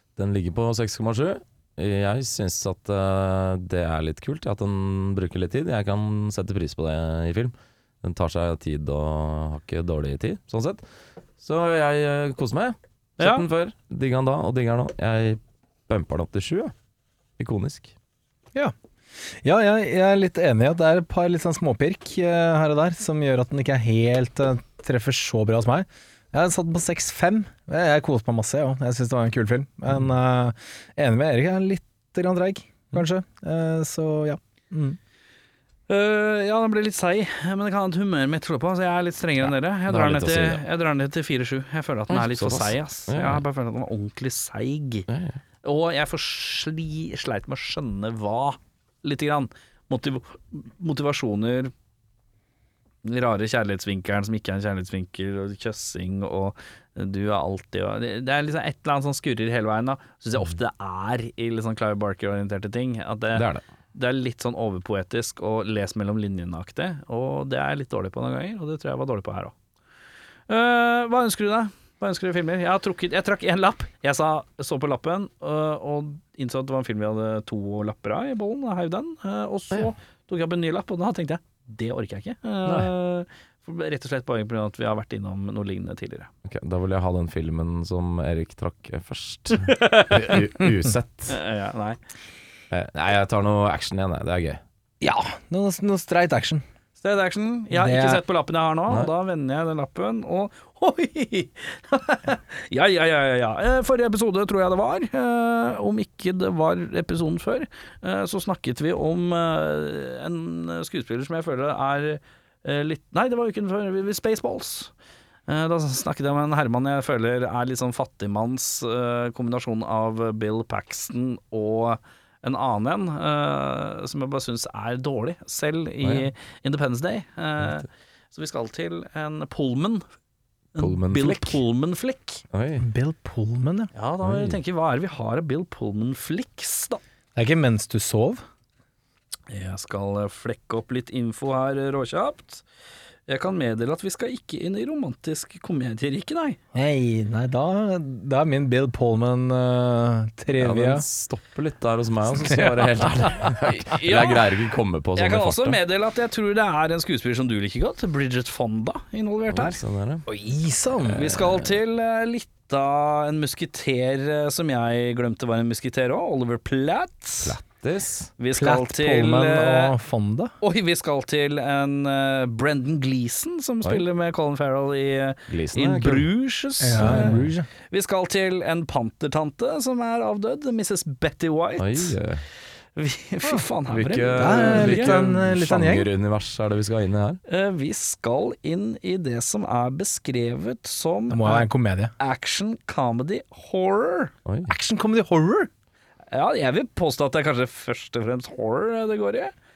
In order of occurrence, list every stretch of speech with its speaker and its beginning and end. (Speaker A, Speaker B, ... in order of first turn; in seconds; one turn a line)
Speaker A: 0.2-10.8
Speaker A: 11.4-16.7
Speaker B: 13.2-13.4
Speaker A: 17.4-17.9
Speaker C: 19.4-35.0
Speaker B: 35.9-45.1
Speaker A: 39.4-40.6
Speaker A: 42.1-43.4
Speaker A: 45.1-45.4
Speaker B: 45.6-51.7
Speaker B: 53.0-69.5
Speaker A: 63.4-63.6
Speaker B: 70.5-86.3
Speaker A: 86.5-91.4
Speaker B: 89.6-90.4
Speaker B: 91.3-92.0
Speaker A: 92.7-94.6
Speaker C: 95.0-96.6
Speaker B: 97.0-114.9
Speaker C: 97.7-98.2
Speaker B: 115.5-130.0
Speaker A: 126.0-126.3
Speaker B: 130.8-132.4
Speaker A: 130.8-131.6
Speaker A: 132.5-132.9
Speaker C: 132.8-133.9
Speaker B: 133.9-137.0
Speaker A: 134.2-134.6
Speaker C: 137.4-138.4
Speaker B: 139.5-142.6
Speaker B: 143.3-146.6
Speaker C: 146.7-151.1
Speaker A: 150.6-155.8
Speaker C: 152.3-153.3
Speaker B: 153.6-154.4
Speaker B: 155.2-159.8
Speaker A: 159.5-160.3
Speaker C: 160.3-161.2
Speaker A: 161.0-161.7
Speaker B: 161.1-167.6
Speaker A: 167.4-168.3
Speaker B: 168.4-169.9
Speaker C: 168.5-170.5
Speaker B: 170.6-177.4
Speaker A: 175.5-176.3
Speaker C: 176.8-177.7
Speaker A: 176.9-177.5
Speaker B: 177.9-182.2
Speaker A: 181.8-182.4
Speaker B: 182.9-185.2
Speaker A: 183.9-187.4
Speaker C: 184.4-186.1
Speaker B: 187.5-191.7
Speaker C: 191.3-192.1
Speaker B: 192.2-194.3
Speaker A: 194.5-194.7
Speaker C: 194.7-195.7
Speaker B: 196.3-199.5